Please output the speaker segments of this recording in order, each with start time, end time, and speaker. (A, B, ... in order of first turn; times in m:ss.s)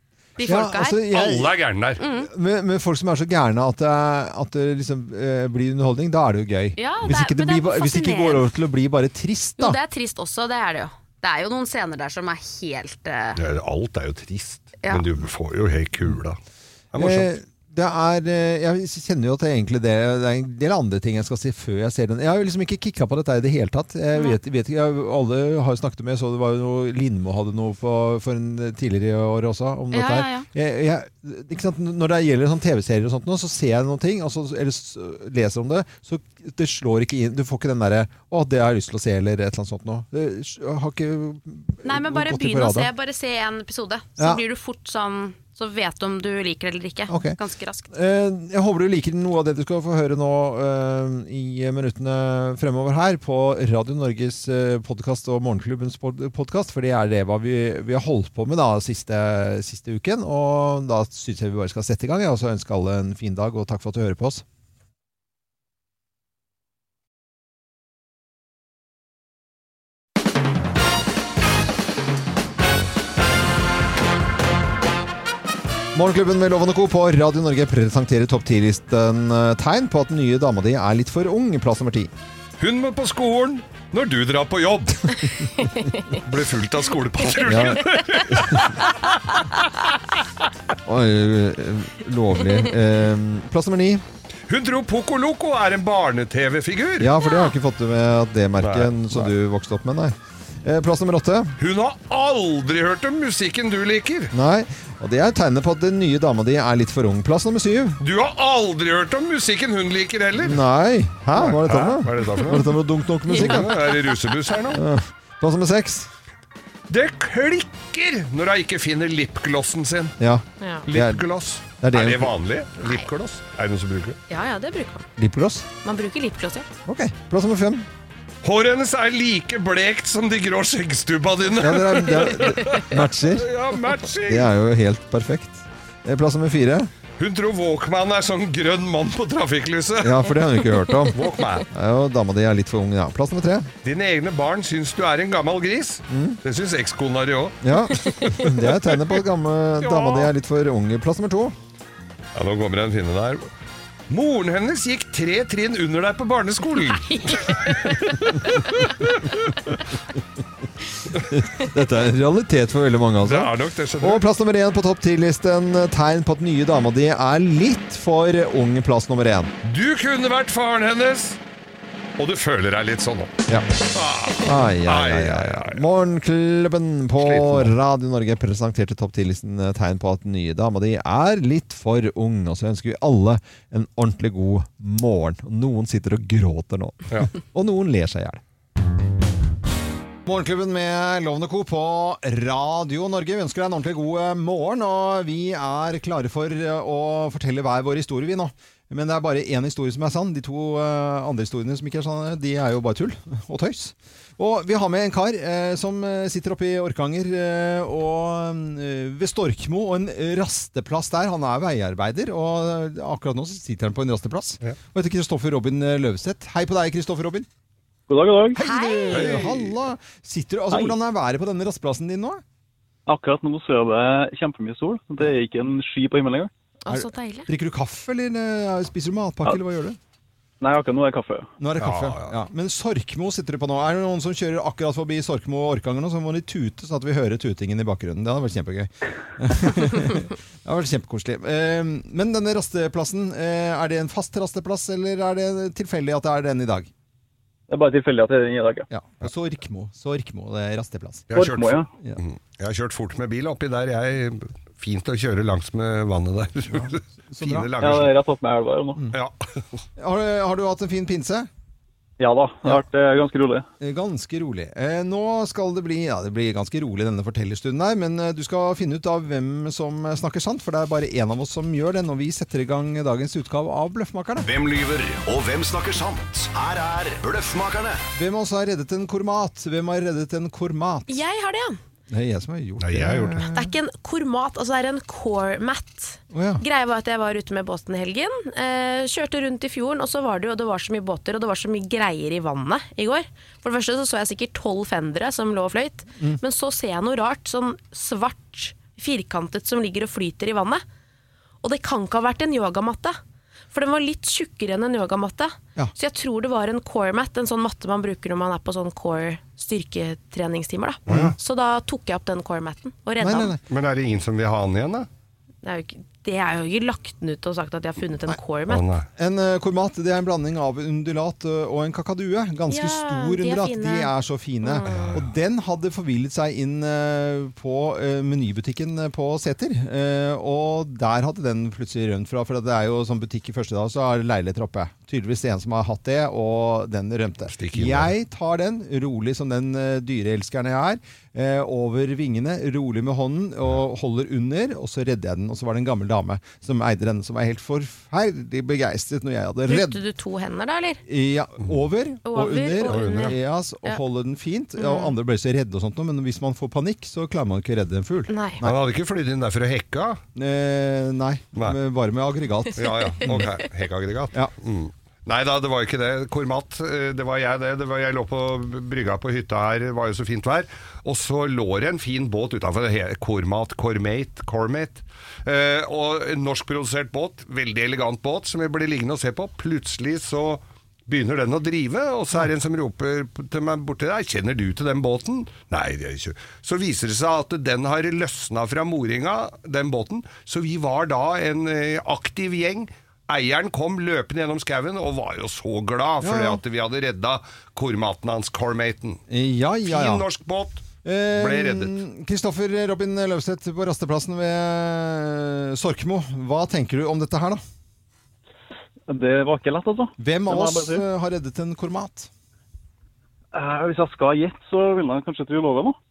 0:00.4-0:01.0 A
0:00.4-0:01.6 B
0:01.1-0:02.0 C
0:02.0-0:02.3 A
0:02.2-0:09.8 B
0:06.8-0:08.5 A
0:09.6-0:13.4 A
0:13.4-0:16.4 C
0:14.8-0:15.1 A
0:16.9-0:17.3 C
0:17.0-0:42.9 B
0:29.9-0:30.5 A
0:41.8-0:47.9 A
0:47.1-0:47.4 B
0:47.9-1:04.4 B
1:15.9-1:22.1 B
1:22.6-1:25.5 C
1:25.6-1:26.2 A
1:26.2-1:29.4 C
1:27.3-1:28.3 A
1:27.4-1:28.8 B
1:30.8-1:34.0 B
1:34.5-1:37.1 C
1:37.0-1:41.6 B
1:37.2-1:37.5 A
1:38.6-1:39.3 C
1:41.6-1:44.3 C
1:44.3-1:48.0 B
1:48.0-1:50.6 C
1:50.4-1:53.9 B
1:51.3-1:52.8 C
1:53.3-1:54.4 A
1:53.4-1:54.8 C
1:54.7-1:56.1 B
1:56.9-2:00.1 C
2:00.2-2:01.2 B
2:00.6-2:00.8 A
2:00.9-2:04.2 C
2:01.8-2:02.4 B
2:04.3-2:05.1 A
2:05.2-2:05.7 B
2:05.8-2:06.7 A
2:06.9-2:07.9 B
2:08.4-2:14.5 C
2:11.6-2:13.5 B
2:14.3-2:16.9 B
2:17.2-2:20.3 C
2:20.0-2:23.7 B
2:21.1-2:21.7 C
2:23.8-2:28.4 C
2:26.1-2:26.4 B
2:27.6-2:31.6 B
2:28.1-2:28.4 A
2:29.8-2:30.3 C
2:32.4-2:33.5 C
2:34.1-2:38.2 C
2:37.0-2:38.9 A
2:39.0-2:39.5 C
2:41.3-2:49.5 B
2:43.2-2:44.2 C
2:49.6-2:51.4 C
2:52.2-2:55.8 C
2:54.4-3:08.4 B
2:57.2-2:57.7 C
3:10.3-3:37.5 B
3:38.1-3:38.6 D
3:38.5-3:42.4 B
3:38.6-3:39.3 A
3:39.1-3:39.7 C
3:43.1-3:46.5 D
3:46.8-3:47.5 A
3:46.9-3:50.0 B
3:50.6-3:51.5 D
3:51.6-4:06.9 B
3:51.8-3:52.4 C
4:07.7-4:08.9 D
4:08.9-4:11.3 B
4:11.3-4:11.9 D
4:11.3-4:18.1 C
4:16.7-4:17.7 B
4:17.8-4:19.0 D
4:19.1-4:19.6 C
4:20.0-4:21.5 B
4:22.2-4:23.6 D
4:23.8-4:34.5 B
4:34.4-4:38.0 E
4:38.2-4:41.2 B
4:41.1-4:41.8 A
4:42.1-4:43.7 B
4:42.8-4:43.4 C
4:43.5-5:00.8 A
4:46.3-4:46.6 B
5:01.6-5:03.2 A
5:03.7-5:13.6 A
5:11.1-5:11.4 C
5:11.1-5:11.4 B
5:13.2-5:13.6 B
5:13.7-5:15.1 C
5:15.6-5:18.9 A
5:18.7-5:19.1 C
5:19.2-5:50.0 B
5:22.7-5:24.9 A
5:24.9-5:25.3 C
5:37.5-5:38.1 C
5:49.7-5:51.0 A
5:51.1-5:58.8 B
5:52.2-5:54.0 A
5:52.8-5:53.4 C
5:54.8-5:55.1 A
5:58.3-5:58.6 A
5:58.6-6:00.2 C
6:00.4-6:03.6 B
6:02.8-6:39.2 C
6:02.8-6:03.2 A
6:36.2-6:36.6 B
6:39.3-6:40.3 B
6:39.9-6:41.9 C
6:41.0-6:47.6 B
6:49.1-6:51.0 D
6:50.2-6:52.3 B
6:53.5-6:56.0 D